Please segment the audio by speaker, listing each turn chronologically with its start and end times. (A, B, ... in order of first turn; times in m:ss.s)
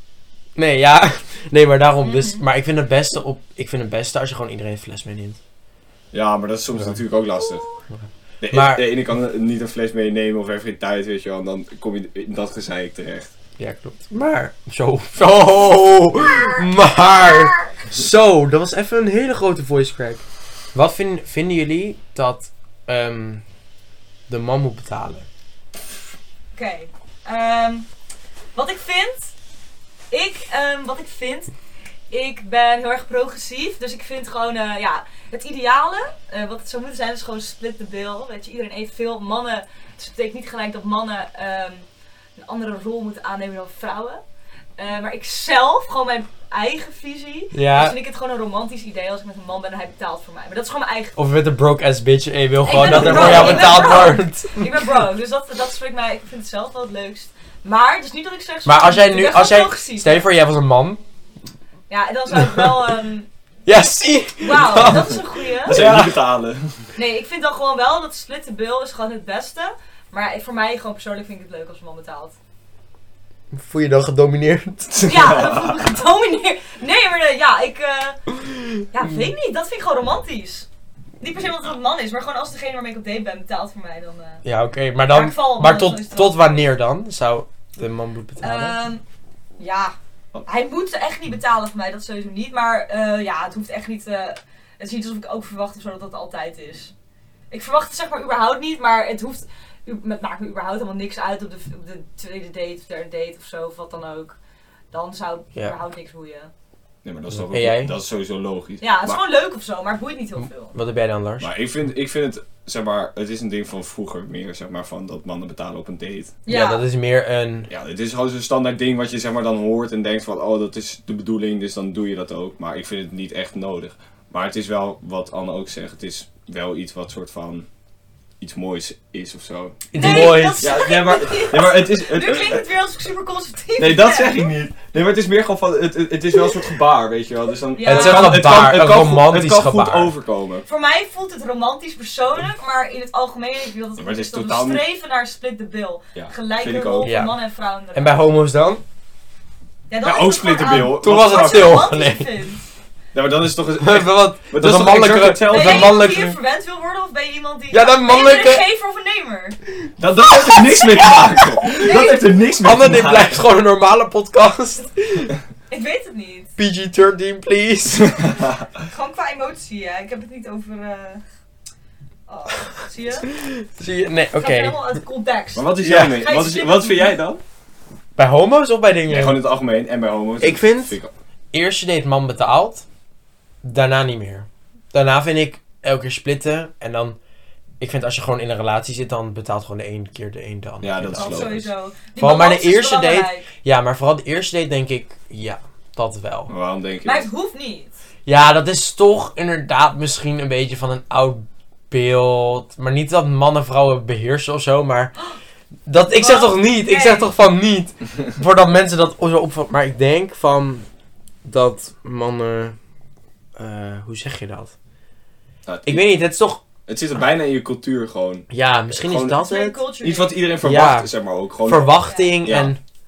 0:00.6-0:05.4 A
0:02.0-0:02.4 B
0:06.1-0:07.6 C
0:07.9-0:08.9 A
0:08.4-0:13.3 C
0:13.6-0:20.2 A
0:20.8-0:23.4 A
0:24.3-0:25.3 A
0:26.6-0:27.9 B
0:28.6-0:29.3 B
0:30.1-0:31.5 B
0:32.1-0:41.9 B
0:42.4-0:44.2 B
0:44.8-0:51.2 B
0:47.5-0:48.0 A
0:51.2-0:54.7 A
0:52.6-1:00.2 B
0:53.1-0:53.6 C
0:58.6-1:01.0 A
1:01.9-1:03.3 B
1:02.3-1:02.8 A
1:03.7-1:06.2 A
1:04.4-1:05.8 B
1:05.6-1:06.9 C
1:07.0-1:12.4 B
1:13.5-1:15.0 A
1:14.9-1:15.8 C
1:15.0-1:18.2 B
1:18.4-1:18.8 A
1:18.9-1:20.7 B
1:21.2-1:24.4 B
1:24.4-1:28.8 A
1:25.1-1:26.6 B
1:28.4-1:29.0 B
1:29.6-1:30.0 B
1:30.5-1:36.9 B
1:37.5-1:44.4 B
1:44.9-1:46.5 B
1:47.0-1:49.2 C
1:47.3-1:48.0 A
1:48.8-1:50.7 B
1:50.4-1:51.5 A
1:51.4-1:56.4 C
1:56.5-1:56.8 B
1:56.5-1:57.7 A
1:57.7-2:07.7 C
2:08.4-2:12.7 C
2:09.9-2:10.7 A
2:10.0-2:14.5 B
2:13.8-2:20.7 C
2:17.8-2:18.4 B
2:17.8-2:20.1 A
2:20.7-2:28.2 B
2:24.0-2:24.8 C
2:26.2-2:27.1 C
2:27.0-2:27.3 A
2:27.9-2:28.8 A
2:29.9-2:32.6 B
2:30.0-2:31.8 C
2:30.9-2:32.3 A
2:33.1-2:36.1 C
2:33.8-2:36.4 A
2:35.5-2:39.6 B
2:37.7-2:38.6 A
2:40.0-2:43.4 C
2:40.3-2:41.9 A
2:41.7-2:42.3 B
2:42.6-2:45.3 A
2:45.7-2:46.5 B
2:46.6-2:48.2 A
2:48.0-2:48.7 C
2:48.8-2:51.2 B
2:52.3-2:53.3 B
2:53.2-2:54.8 A
2:54.4-2:57.2 B
2:55.6-2:57.4 C
2:55.8-2:56.2 A
2:58.2-2:59.4 A
2:59.1-3:01.1 C
3:00.4-3:01.0 A
3:01.5-3:02.8 A
3:03.6-3:07.2 A
3:07.8-3:16.5 A
3:10.8-3:11.6 C
3:11.1-3:13.5 B
3:16.5-3:17.3 C
3:17.0-3:17.9 B
3:18.3-3:25.1 A
3:25.9-3:30.9 A
3:26.2-3:27.3 B
3:31.4-3:32.8 A
3:33.6-3:34.8 A
3:35.7-3:36.0 C
3:35.9-3:36.6 A
3:36.9-3:39.4 C
3:38.5-3:39.8 A
3:39.3-3:40.4 B
3:40.0-3:42.7 C
3:40.6-3:41.1 A
3:41.7-3:42.8 A
3:42.0-3:42.4 B